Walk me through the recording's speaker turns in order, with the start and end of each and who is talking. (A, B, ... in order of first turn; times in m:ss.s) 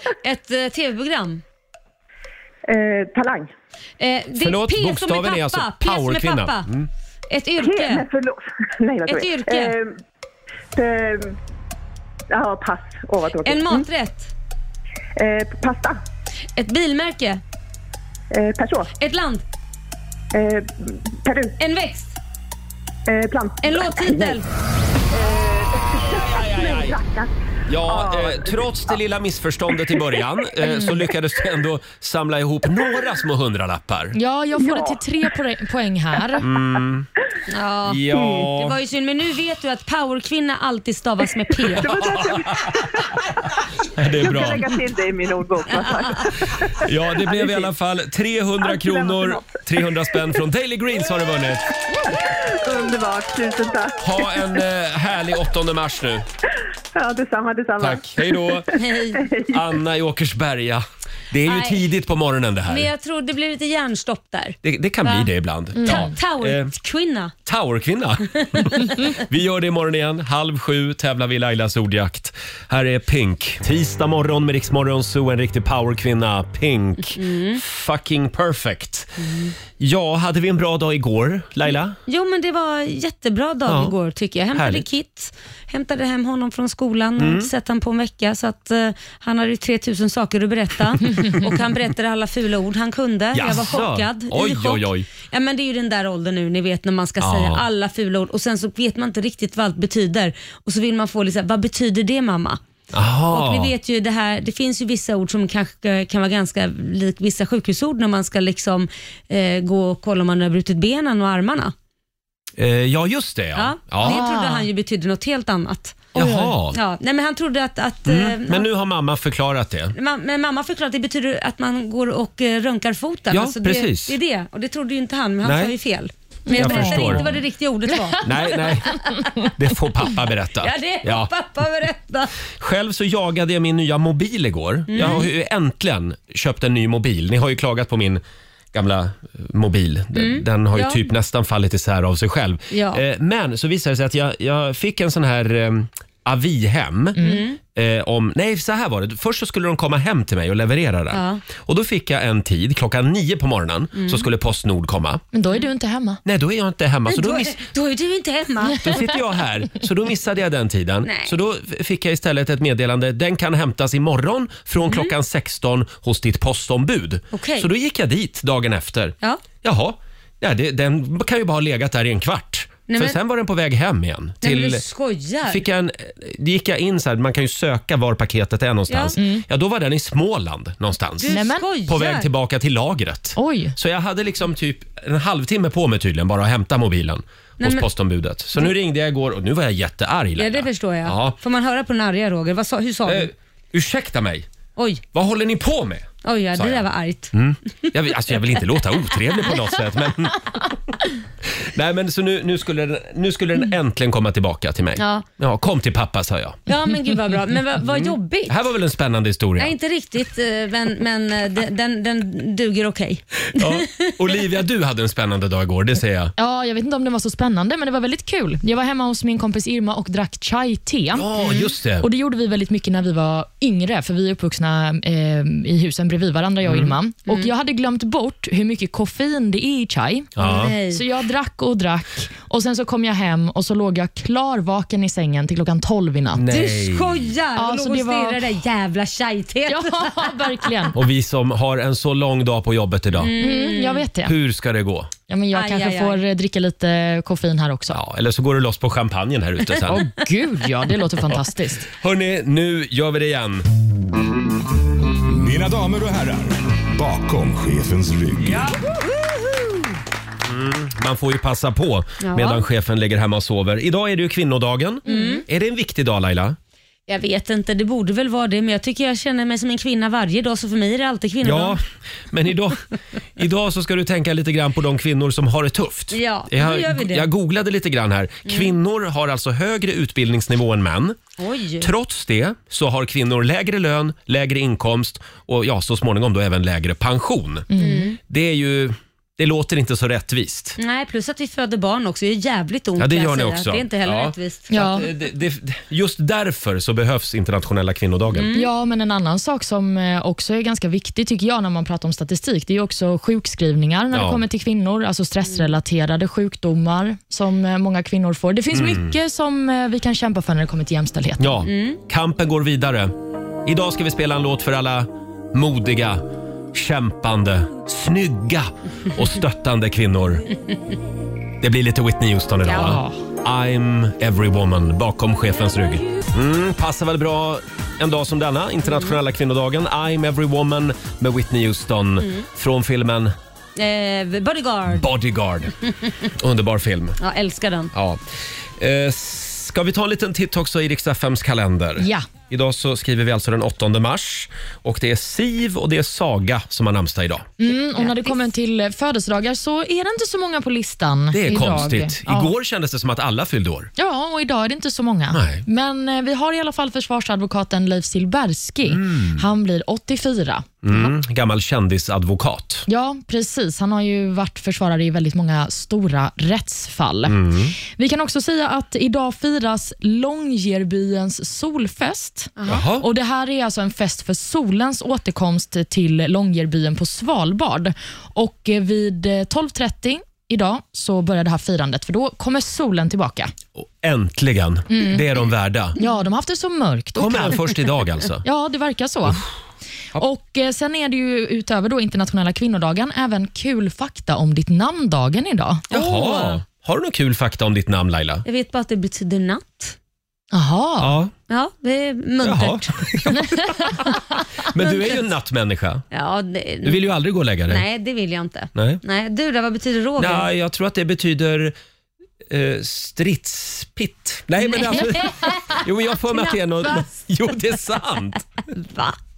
0:00.2-0:01.4 A
0:02.7-0:03.4 B
0:04.0-0:06.7 A
0:04.4-0:06.9 C
0:07.3-0:08.1 A
0:09.0-0:09.8 A
0:12.4-0:13.5 B
0:13.4-0:14.3 A
0:16.6-0:17.4 A
0:19.0-0:19.4 A
0:21.6-0:22.2 A
0:23.6-0:24.5 A
0:23.7-0:24.0 B
0:26.0-0:27.0 C
0:27.7-0:34.2 C
0:34.1-0:36.5 D
0:36.4-0:37.1 C
0:37.5-0:41.9 A
0:37.9-0:38.8 C
0:41.8-0:42.8 C
0:41.8-0:42.8 B
0:44.0-0:44.7 C
0:44.4-0:45.0 B
0:45.5-0:46.1 B
0:46.8-0:51.7 C
0:48.9-0:49.2 B
0:52.7-0:53.6 B
0:54.0-0:56.2 C
0:57.1-0:58.5 B
0:57.8-0:58.8 C
0:58.8-0:59.2 A
0:59.5-1:02.9 C
1:01.4-1:01.8 A
1:02.7-1:05.3 A
1:04.6-1:06.7 C
1:05.8-1:07.3 A
1:07.5-1:19.1 C
1:08.4-1:08.8 A
1:17.1-1:17.6 A
1:19.2-1:19.5 A
1:19.8-1:22.0 C
1:22.1-1:42.6 A
1:23.7-1:24.0 C
1:24.5-1:24.9 C
1:27.2-1:27.5 C
1:33.3-1:35.1 C
1:37.2-1:37.6 C
1:42.9-1:43.7 C
1:43.3-1:51.7 A
1:52.6-1:54.2 C
1:53.6-1:56.2 A
1:54.0-1:54.6 D
1:56.1-1:56.5 D
1:56.1-1:56.8 C
1:56.7-1:58.7 A
1:58.0-2:00.0 C
2:00.0-2:09.5 A
2:03.3-2:04.2 C
2:05.4-2:05.8 C
2:06.5-2:07.3 D
2:06.5-2:07.3 C
2:08.2-2:11.3 C
2:10.6-2:12.4 A
2:12.5-2:18.2 C
2:14.9-2:15.3 A
2:18.7-2:35.2 C
2:20.1-2:21.0 A
2:22.7-2:23.0 A
2:27.2-2:27.4 D
2:27.2-2:27.6 A
2:31.1-2:31.4 A
2:34.0-2:34.2 A
2:35.3-2:36.2 D
2:36.2-2:37.6 C
2:37.1-2:39.0 A
2:38.8-2:54.8 C
2:41.0-2:41.3 A
2:44.9-2:45.1 A
2:47.3-2:47.7 A
2:52.9-2:53.2 A
2:54.4-2:55.6 A
2:55.5-3:11.4 C
2:58.9-2:59.2 A
2:59.2-2:59.4 D
3:01.2-3:02.3 A
3:01.3-3:01.6 D
3:03.4-3:03.8 D
3:07.6-3:07.9 A
3:10.4-3:13.3 A
3:13.0-3:14.5 C
3:14.8-3:15.0 A
3:15.1-3:20.8 C
3:16.2-3:17.3 A
3:21.5-3:26.6 C
3:25.0-3:25.2 A
3:26.7-3:28.6 A
3:27.8-3:29.8 C
3:29.6-3:34.1 A
3:33.5-3:36.3 C
3:36.4-3:41.3 D
3:41.1-3:42.1 C
3:42.0-3:56.5 D
3:46.6-3:46.9 C
3:50.4-3:50.8 C
3:50.4-3:51.0 A
3:56.3-3:57.3 C
3:56.5-4:00.4 A
3:57.6-3:58.4 D
3:59.7-4:01.0 D
4:00.9-4:03.3 C
4:03.2-4:04.0 A
4:03.4-4:04.4 D
4:04.2-4:05.1 C
4:05.3-4:08.0 D
4:05.5-4:06.2 A
4:07.9-4:10.0 C
4:09.9-4:11.9 D
4:11.9-4:13.7 C
4:15.3-4:18.7 E
4:18.4-4:18.7 C
4:20.4-4:26.6 C
4:22.2-4:22.6 A
4:25.1-4:25.4 A
4:25.1-4:25.4 D
4:27.1-4:31.8 A
4:31.4-4:32.8 C
4:33.4-4:41.2 C
4:36.1-4:37.3 A
4:38.5-4:38.7 A
4:41.4-4:41.9 A
4:41.8-4:47.7 C
4:47.7-4:48.1 D
4:47.8-4:48.2 A
4:48.2-4:50.8 C
4:50.8-4:54.7 A
4:53.0-4:58.5 C
4:54.7-4:55.1 D
4:58.3-4:58.7 A
4:58.5-5:11.6 D
5:04.1-5:04.4 C
5:08.7-5:09.1 C
5:11.4-5:20.4 C
5:11.7-5:12.0 A
5:21.6-5:33.3 C
5:22.7-5:23.0 A
5:22.8-5:23.2 D
5:28.9-5:29.1 A
5:33.8-5:35.1 A
5:34.9-5:35.7 C
5:36.3-5:37.2 C
5:37.2-5:37.9 A
5:37.9-5:38.2 C
5:38.8-5:47.5 C
5:42.0-5:42.2 D
5:47.6-5:52.5 D
5:48.0-5:48.3 A
5:51.3-5:53.9 C
5:54.0-6:01.1 D
5:55.3-5:55.6 C
5:58.9-5:59.4 C
6:00.8-6:02.9 C
6:02.9-6:23.5 D
6:07.3-6:07.8 C
6:12.6-6:12.9 A
6:12.7-6:13.0 C
6:23.8-6:26.0 C
6:24.9-6:25.2 D
6:26.0-6:27.6 D
6:27.2-6:28.4 C
6:28.4-6:29.4 D
6:30.1-6:35.9 D
6:35.9-6:38.4 C
6:35.9-6:36.6 A
6:38.4-6:40.0 A
6:40.5-6:41.1 D
6:41.0-6:41.3 C
6:41.5-6:43.0 A
6:42.4-6:44.1 C
6:44.7-6:46.0 C
6:46.1-6:47.1 A
6:46.8-6:47.8 C
6:47.7-6:50.5 A
6:50.2-6:51.8 C
6:52.5-6:58.4 C
6:54.7-6:55.6 A
6:56.3-6:57.1 A
6:58.7-6:59.2 A